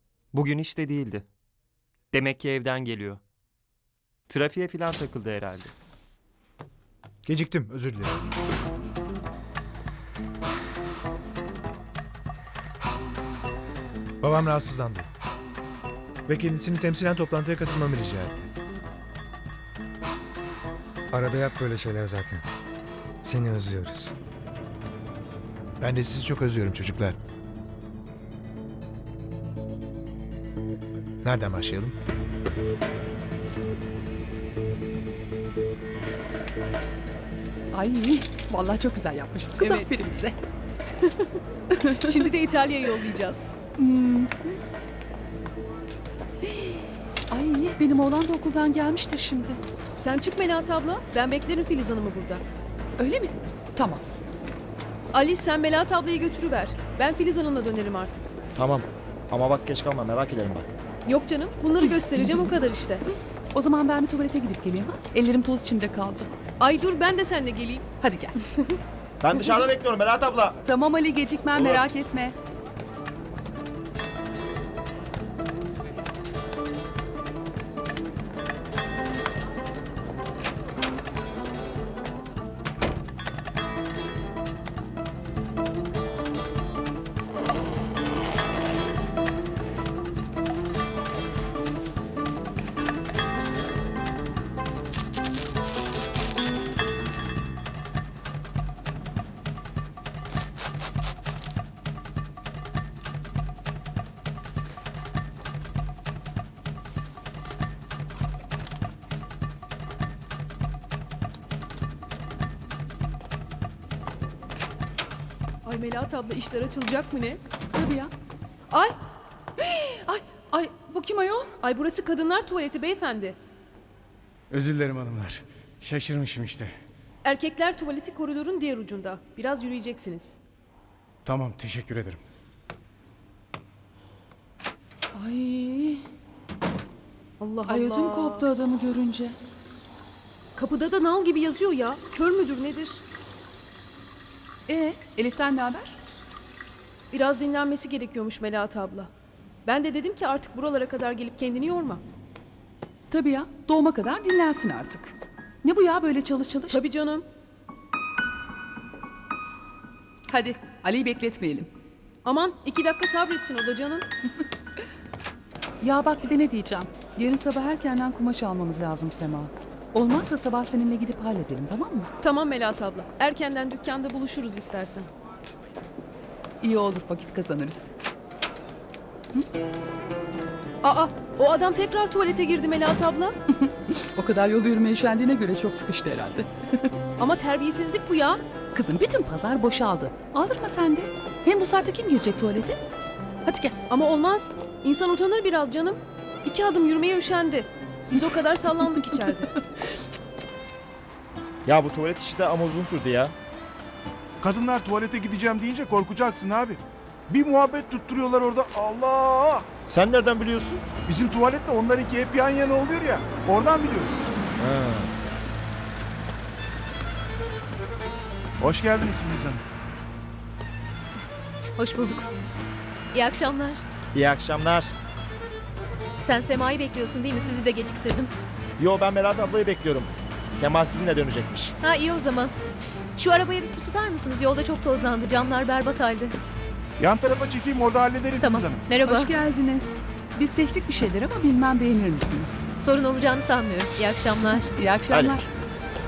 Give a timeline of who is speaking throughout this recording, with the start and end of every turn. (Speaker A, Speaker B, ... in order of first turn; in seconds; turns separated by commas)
Speaker A: 0.3-1.3, Speaker A: 2.1-3.2, Speaker A: 4.3-5.7, Speaker B: 7.2-8.1, Speaker B: 14.2-15.1, Speaker B: 16.3-18.5, Speaker C: 21.1-22.4, Speaker C: 23.2-24.1, Speaker B: 25.8-27.2, Speaker B: 31.2-31.9, Speaker D: 37.7-40.4, Speaker E: 39.6-40.0, Speaker E: 41.0-43.5, Speaker D: 43.8-44.6, Speaker D: 46.4-49.6, Speaker E: 49.9-52.4, Speaker D: 53.0-54.0, Speaker E: 55.1-58.2, Speaker F: 58.6-60.7, Speaker E: 61.1-63.0, Speaker D: 61.8-62.5, Speaker D: 63.5-66.3, Speaker E: 66.6-67.9, Speaker D: 68.0-68.4, Speaker F: 69.2-70.6, Speaker D: 70.6-72.3, Speaker E: 115.6-117.4, Speaker D: 117.7-118.1, Speaker E: 118.7-119.0, Speaker D: 119.6-121.6, Speaker E: 121.6-123.4, Speaker G: 124.5-126.7, Speaker E: 127.2-130.3, Speaker G: 131.2-132.2, Speaker D: 135.1-136.1, Speaker E: 137.4-138.5, Speaker D: 137.7-139.4, Speaker E: 140.6-143.1, Speaker D: 144.7-146.0, Speaker E: 147.1-149.1, Speaker E: 149.7-152.0, Speaker D: 153.1-156.8, Speaker E: 156.7-157.3, Speaker D: 160.3-161.7, Speaker E: 162.2-164.1, Speaker D: 165.8-172.1, Speaker E: 172.2-175.1, Speaker D: 176.6-177.9, Speaker E: 180.8-183.3, Speaker D: 183.5-186.9, Speaker E: 187.2-188.4, Speaker D: 188.7-192.8, Speaker D: 193.4-193.8, Speaker E: 193.9-199.5, Speaker F: 201.7-203.3, Speaker H: 204.4-209.7, Speaker F: 209.9-210.8, Speaker H: 211.1-214.1, Speaker F: 214.6-215.1, Speaker H: 218.6-219.6, Speaker I: 221.8-222.3, Speaker I: 223.1-223.8, Speaker F: 224.1-224.9, Speaker I: 226.2-228.3, Speaker F: 228.8-231.8, Speaker I: 231.8-232.5, Speaker I: 233.2-236.4, Speaker H: 237.0-238.8, Speaker I: 238.4-239.3, Speaker D: 239.0-242.6, Speaker I: 242.8-244.7, Speaker D: 244.8-245.5, Speaker F: 245.1-245.4